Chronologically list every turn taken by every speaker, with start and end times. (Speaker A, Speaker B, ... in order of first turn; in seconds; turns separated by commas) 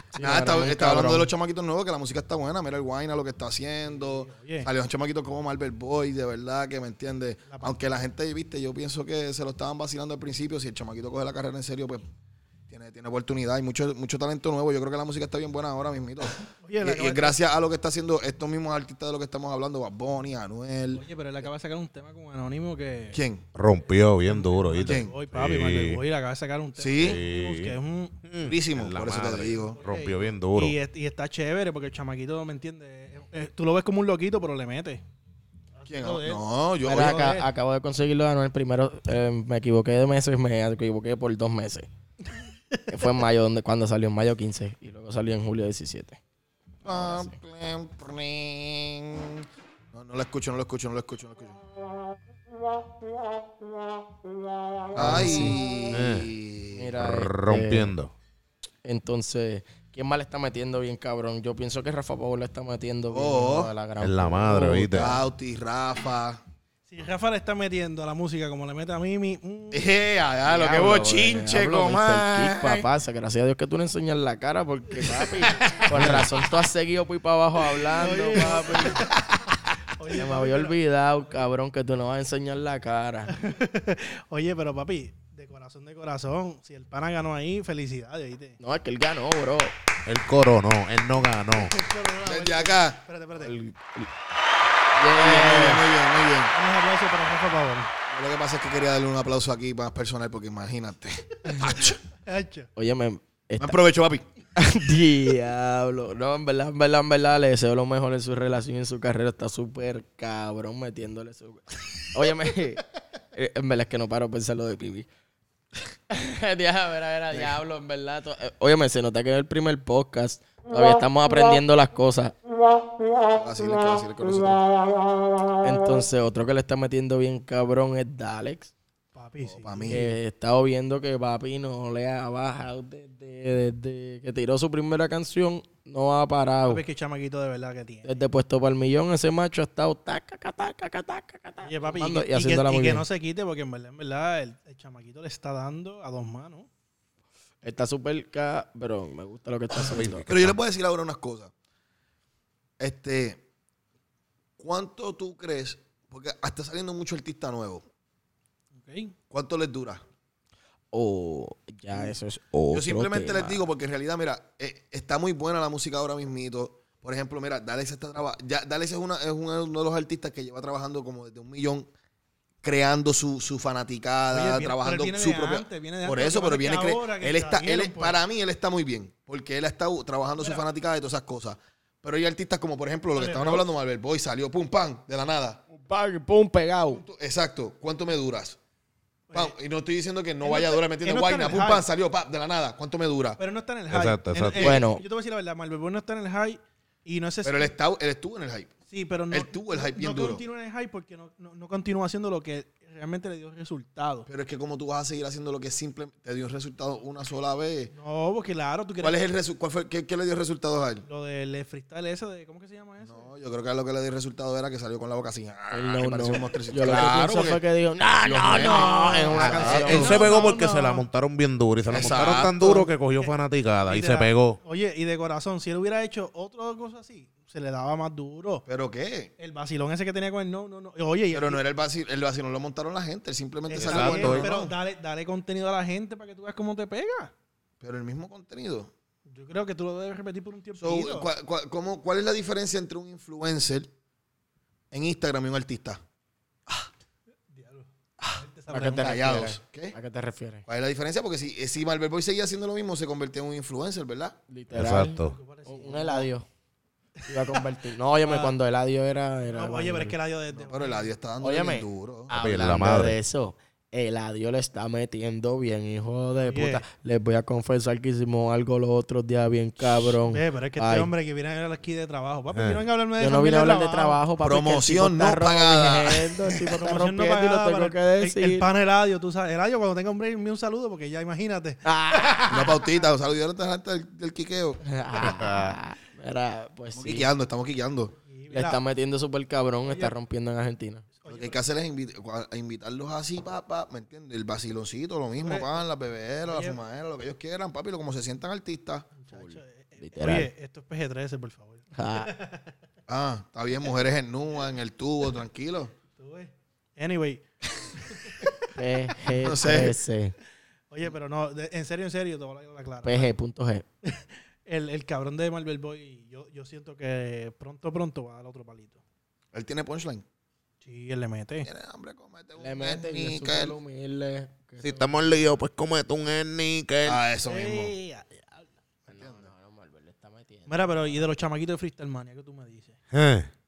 Speaker A: 0.1-1.3, Speaker B: 0.2-12.0, Speaker C: 3.8-4.7, Speaker C: 7.5-7.8, Speaker B: 12.7-21.0, Speaker C: 16.6-17.3, Speaker C: 20.9-23.2, Speaker B: 23.1-23.4, Speaker D: 23.5-26.0, Speaker C: 24.2-28.1, Speaker B: 24.8-25.1, Speaker B: 26.8-27.2, Speaker D: 27.0-30.8, Speaker B: 28.4-29.8, Speaker C: 29.7-35.0, Speaker C: 35.8-37.5, Speaker B: 35.9-37.4, Speaker A: 36.8-41.9, Speaker A: 42.9-46.2, Speaker B: 46.8-51.6, Speaker A: 46.9-47.3, Speaker B: 54.9-56.9, Speaker A: 54.9-55.6, Speaker D: 55.9-56.3, Speaker A: 56.7-57.9, Speaker D: 57.0-58.1, Speaker A: 58.8-65.1, Speaker B: 63.1-63.7, Speaker D: 64.0-65.2, Speaker B: 64.9-66.4, Speaker C: 66.9-69.9, Speaker B: 69.7-72.8, Speaker A: 70.5-79.1, Speaker C: 75.6-76.1, Speaker B: 75.8-76.2, Speaker C: 78.0-79.2, Speaker C: 80.0-81.3, Speaker A: 80.1-83.3, Speaker C: 83.3-88.6, Speaker A: 88.6-89.7, Speaker D: 90.0-91.7, Speaker C: 91.5-93.5, Speaker B: 92.2-93.0, Speaker A: 93.4-94.1, Speaker A: 95.0-95.8, Speaker B: 95.2-96.5, Speaker C: 96.5-97.9, Speaker B: 98.1-102.0, Speaker C: 102.2-102.7, Speaker A: 102.8-103.8, Speaker B: 103.6-104.2, Speaker A: 104.5-112.8, Speaker A: 113.3-115.1, Speaker A: 116.1-122.3, Speaker B: 117.3-117.6, Speaker B: 123.3-124.6, Speaker A: 125.6-128.7, Speaker C: 129.1-130.1, Speaker B: 129.4-130.1, Speaker A: 129.9-136.8, Speaker C: 136.7-138.1, Speaker A: 138.1-143.0, Speaker C: 141.6-146.7, Speaker A: 147.6-150.3, Speaker D: 149.8-150.6, Speaker B: 150.3-151.5, Speaker B: 152.8-153.4, Speaker B: 154.6-157.8, Speaker C: 158.7-159.1, Speaker B: 159.3-160.0, Speaker A: 160.9-163.6, Speaker B: 161.9-162.2, Speaker B: 162.7-171.9, Speaker B: 172.6-185.6, Speaker C: 174.3-178.2, Speaker C: 180.4-180.6, Speaker C: 183.2-183.7, Speaker A: 185.8-187.0, Speaker B: 186.9-188.6, Speaker C: 189.3-189.5, Speaker B: 189.3-193.4, Speaker C: 190.4-191.8, Speaker C: 193.4-197.7, Speaker D: 193.9-194.8, Speaker A: 194.6-195.0, Speaker B: 197.4-198.7, Speaker C: 198.9-204.3, Speaker B: 199.3-200.4, Speaker B: 204.3-207.9, Speaker C: 207.9-209.2, Speaker B: 209.0-211.0, Speaker C: 211.1-213.3, Speaker B: 213.0-217.6, Speaker A: 215.7-220.3, Speaker B: 218.2-220.2, Speaker C: 218.6-221.0, Speaker D: 219.7-224.6, Speaker B: 221.9-222.9, Speaker C: 223.9-228.6, Speaker B: 228.7-229.3, Speaker C: 229.4-231.6, Speaker B: 231.3-234.7, Speaker C: 233.7-237.3, Speaker D: 233.8-234.5, Speaker B: 237.8-238.9, Speaker C: 239.3-241.3, Speaker B: 240.8-243.9, Speaker B: 244.9-246.0, Speaker C: 247.5-249.2, Speaker B: 248.2-249.9, Speaker A: 248.7-250.6, Speaker B: 250.7-254.4, Speaker A: 254.5-256.4, Speaker D: 254.7-255.3, Speaker C: 254.9-256.3, Speaker C: 257.2-257.6, Speaker A: 257.3-260.1, Speaker C: 258.2-258.5, Speaker C: 259.5-261.1, Speaker B: 260.5-262.3, Speaker A: 261.4-271.1, Speaker D: 262.3-263.1, Speaker C: 266.4-266.8, Speaker C: 269.8-274.2, Speaker D: 272.5-272.8, Speaker A: 273.2-278.6, Speaker B: 274.4-276.6, Speaker C: 276.8-282.7, Speaker A: 281.8-282.5, Speaker B: 282.5-284.8, Speaker A: 284.8-287.3, Speaker D: 285.2-285.8, Speaker B: 286.9-288.1, Speaker C: 288.3-288.8, Speaker A: 288.5-291.0, Speaker C: 289.8-290.1, Speaker C: 291.2-291.6, Speaker B: 291.3-299.1, Speaker C: 295.4-295.8, Speaker C: 296.4-296.8, Speaker C: 299.1-302.7, Speaker A: 299.3-300.5, Speaker A: 301.9-302.3, Speaker B: 303.1-305.9, Speaker C: 306.2-307.4, Speaker C: 308.1-308.6, Speaker A: 308.7-310.3, Speaker B: 309.3-309.9, Speaker C: 310.9-313.3, Speaker A: 313.0-313.8, Speaker C: 314.0-319.0, Speaker B: 319.5-320.2, Speaker C: 320.8-321.7, Speaker B: 321.6-323.8, Speaker A: 322.6-325.5, Speaker D: 324.8-327.2, Speaker B: 327.0-327.9, Speaker C: 327.4-328.7, Speaker A: 329.1-331.2, Speaker B: 329.1-329.5, Speaker C: 330.7-333.0, Speaker D: 333.1-333.5